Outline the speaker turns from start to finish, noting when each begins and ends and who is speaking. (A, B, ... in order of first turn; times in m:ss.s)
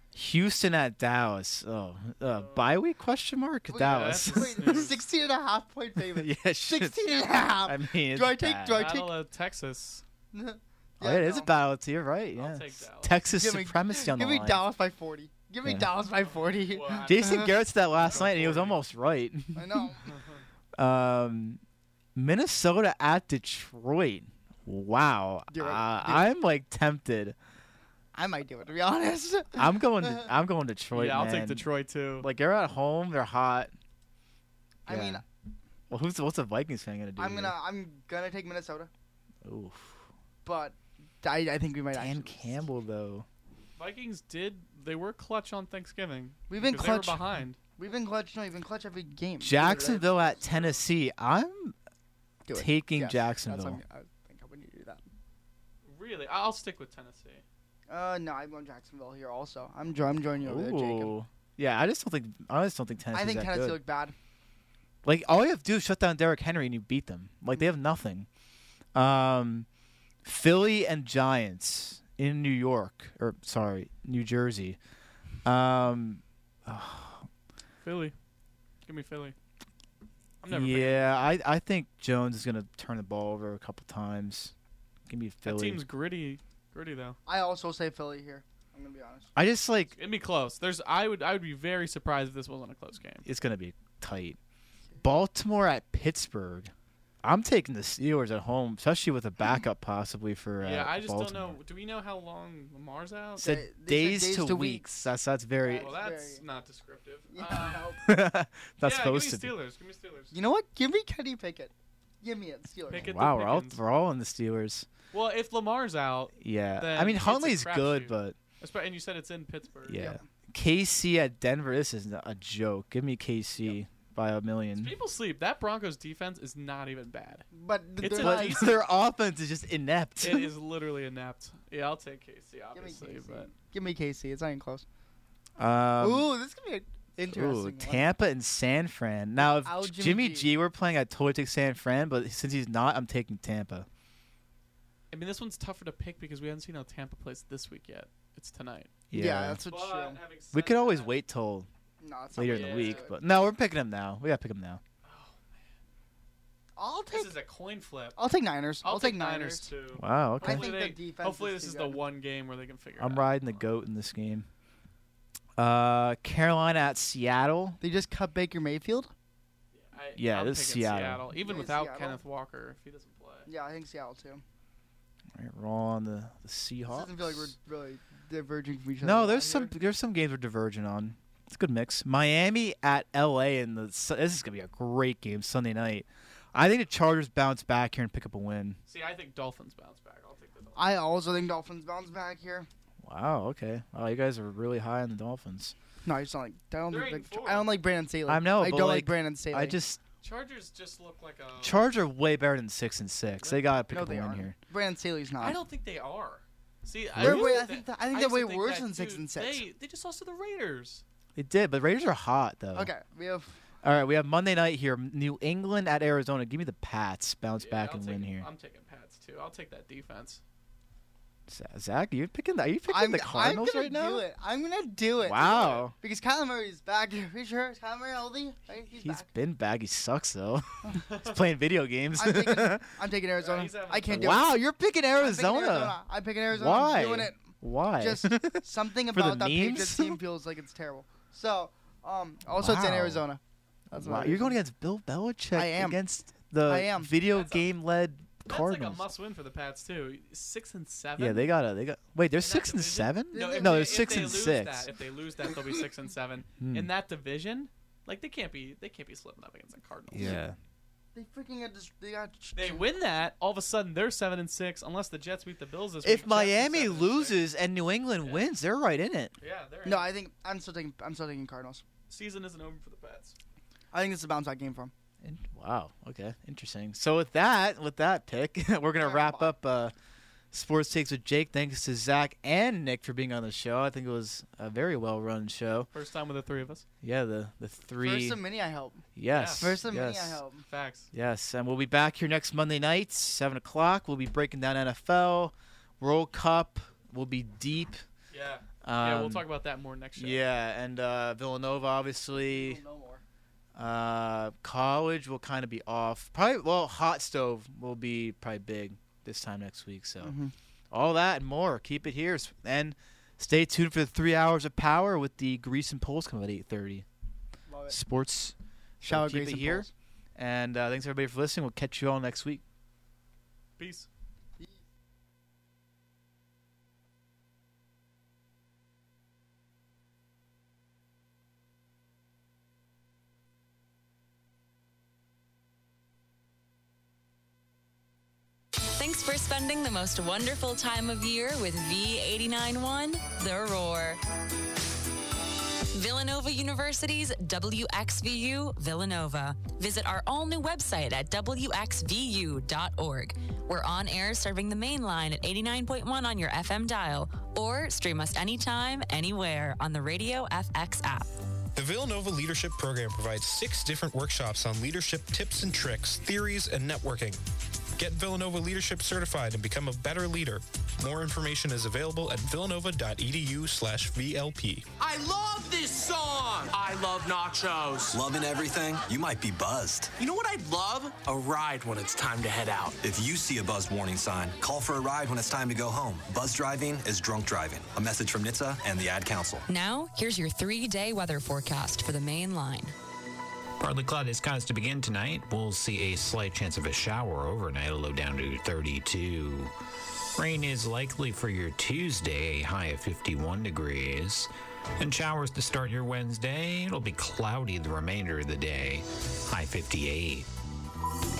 0:00.1-0:04.9 A
0:02.2-0:02.7 B
0:03.7-0:09.1 C
0:03.8-0:05.0 B
0:06.1-0:08.9 A
0:08.7-0:10.0 B
0:10.3-0:11.5 C
0:11.0-0:14.6 A
0:12.4-0:13.2 B
0:13.3-0:17.5 C
0:15.6-0:15.9 A
0:16.2-0:17.5 B
0:17.0-0:19.9 A
0:18.0-0:18.8 B
0:19.5-0:20.0 C
0:20.1-0:20.4 B
0:20.8-0:21.6 A
0:22.1-0:27.4 A
0:25.5-0:26.3 C
0:28.1-0:30.2 C
0:29.6-0:31.7 A
0:30.9-0:32.3 B
0:32.2-0:33.7 A
0:34.9-0:35.2 A
0:34.9-0:35.2 C
0:35.9-0:37.5 A
0:37.2-0:38.9 C
0:39.4-0:40.1 A
0:40.4-0:42.6 C
0:41.9-0:43.2 A
0:43.8-0:47.6 B
0:46.5-0:47.2 C
0:47.8-0:50.3 C
0:49.4-0:51.7 A
0:49.6-0:50.8 B
0:52.4-0:55.0 C
0:52.5-0:53.8 A
0:55.8-0:57.4 B
0:57.9-1:01.1 C
1:00.4-1:03.8 A
1:03.1-1:04.1 C
1:05.0-1:08.3 A
1:08.9-1:09.7 A
1:10.2-1:14.8 A
1:15.4-1:17.3 A
1:17.8-1:18.1 B
1:18.8-1:19.3 B
1:20.4-1:21.2 B
1:20.5-1:24.5 A
1:25.1-1:25.8 A
1:25.4-1:27.2 B
1:27.2-1:29.3 C
1:29.4-1:29.9 A
1:30.0-1:33.2 B
1:33.2-1:34.4 A
1:35.0-1:41.6 A
1:40.6-1:43.6 B
1:43.4-1:45.9 A
1:43.4-1:44.8 C
1:45.6-1:46.4 C
1:45.8-1:47.9 B
1:47.3-1:48.0 C
1:48.0-1:49.5 A
1:48.8-1:50.3 B
1:50.3-1:53.1 C
1:52.9-1:53.8 B
1:52.9-1:54.9 A
1:55.1-2:00.1 B
1:56.4-1:58.4 A
1:59.9-2:04.9 A
2:04.8-2:08.8 B
2:07.5-2:08.8 C
2:08.0-2:10.5 A
2:10.2-2:13.5 B
2:12.7-2:14.8 C
2:15.6-2:16.3 A
2:16.0-2:18.1 C
2:17.2-2:23.9 A
2:19.4-2:20.5 C
2:25.1-2:28.9 B
2:29.1-2:29.6 A
2:29.1-2:30.2 C
2:29.6-2:31.1 B
2:30.5-2:31.7 A
2:32.0-2:33.2 C
2:32.3-2:34.8 A
2:32.3-2:33.1 B
2:35.0-2:35.7 B
2:36.8-2:37.3 C
2:37.1-2:38.2 B
2:38.2-2:39.7 C
2:38.8-2:43.6 B
2:39.9-2:40.7 A
2:40.4-2:42.0 C
2:43.0-2:44.5 A
2:45.6-2:47.8 A
2:47.8-2:49.1 C
2:49.7-2:53.5 B
2:50.1-2:51.2 A
2:51.4-2:52.2 C
2:53.4-2:54.4 C
2:55.3-2:57.5 A
2:56.9-2:59.7 C
2:59.0-3:08.8 A
3:08.8-3:10.9 B
3:10.8-3:12.7 C
3:13.0-3:15.7 A
3:16.0-3:19.8 C
3:16.9-3:17.8 B
3:18.3-3:20.0 A
3:20.2-3:21.8 B
3:21.6-3:24.5 A
3:23.4-3:23.7 B
3:23.9-3:25.6 C
3:25.4-3:31.0 B
3:27.1-3:27.7 A
3:27.2-3:29.6 C
3:31.4-3:32.9 A
3:32.7-3:33.6 C
3:33.8-3:38.5 A
3:37.6-3:40.4 B
3:41.5-3:44.2 A
3:42.9-3:49.3 C
3:45.2-3:45.9 A
3:48.9-3:52.8 A
3:51.0-3:51.3 B
3:52.2-3:54.6 C
3:53.4-3:54.4 B
3:54.1-4:00.2 A
3:55.1-3:57.4 C
3:58.0-4:03.4 C
4:02.6-4:03.2 A
4:03.9-4:04.6 C
4:03.9-4:09.1 A
4:05.5-4:06.0 C
4:06.6-4:07.1 C
4:07.3-4:07.7 B
4:08.5-4:11.5 B
4:11.2-4:14.9 A
4:12.4-4:20.4 B
4:13.3-4:14.4 C
4:16.6-4:16.9 A
4:20.1-4:20.6 A
4:21.1-4:22.8 C
4:22.5-4:27.4 B
4:26.0-4:29.3 A
4:28.2-4:28.5 B
4:29.4-4:30.1 B
4:29.8-4:31.8 C
4:32.1-4:33.4 B
4:33.9-4:34.9 C
4:35.2-4:39.9 A
4:39.0-4:39.5 C
4:40.5-4:45.9 A
4:45.9-4:46.8 B
4:47.0-4:48.4 A
4:48.0-4:49.0 C
4:49.2-4:50.4 A
4:49.3-4:49.8 B
4:49.6-4:50.6 C
4:50.6-4:51.1 B
4:51.1-4:58.0 A
4:58.3-5:00.4 B
4:58.8-4:59.4 A
5:00.2-5:02.8 A
5:02.4-5:03.2 C
5:03.7-5:10.4 A
5:10.2-5:10.5 C
5:10.9-5:17.0 A
5:17.7-5:18.0 C
5:17.9-5:22.6 A
5:19.0-5:19.9 C
5:23.8-5:24.1 B
5:38.9-5:44.2 D
5:45.9-6:01.3 D
6:01.7-6:07.4 E
6:08.0-6:14.8 E
6:15.0-6:18.2 F
6:18.1-6:20.1 G
6:20.2-6:23.0 F
6:23.0-6:29.6 G
6:29.7-6:32.9 D
6:33.8-6:39.7 H
6:40.4-6:50.5 H